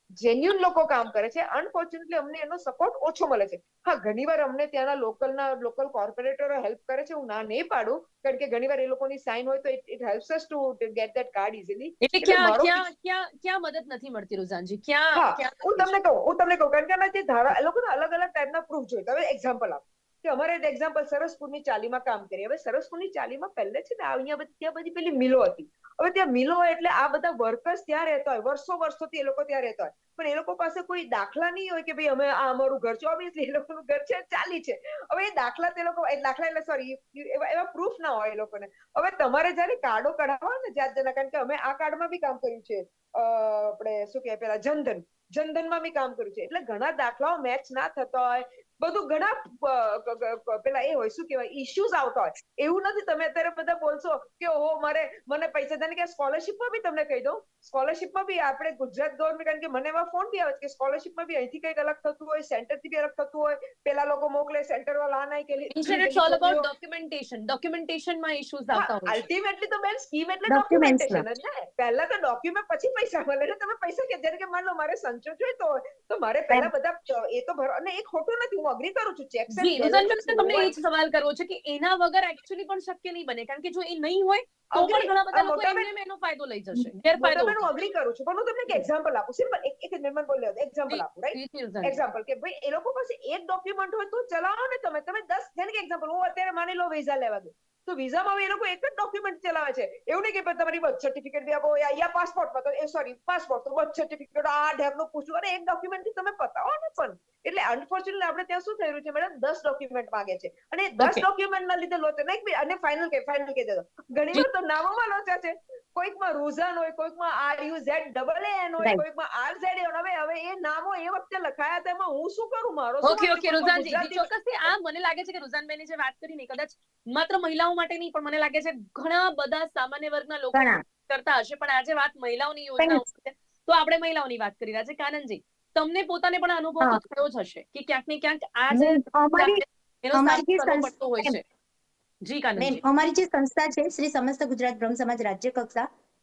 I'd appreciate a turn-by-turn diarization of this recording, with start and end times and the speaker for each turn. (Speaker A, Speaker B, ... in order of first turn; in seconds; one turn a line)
Speaker A: 0.2-12.9
Speaker B: 12.0-16.0
Speaker A: 15.2-66.7
Speaker B: 65.7-69.2
Speaker A: 68.8-80.8
Speaker C: 70.5-71.2
Speaker B: 79.5-87.7
Speaker A: 84.7-85.9
Speaker A: 87.2-124.3
Speaker B: 90.9-92.0
Speaker B: 111.0-111.2
Speaker B: 123.0-141.4
Speaker C: 130.5-130.8
Speaker C: 132.8-133.1
Speaker C: 138.7-139.6
Speaker C: 140.1-141.4
Speaker B: 142.2-142.8
Speaker C: 142.6-145.9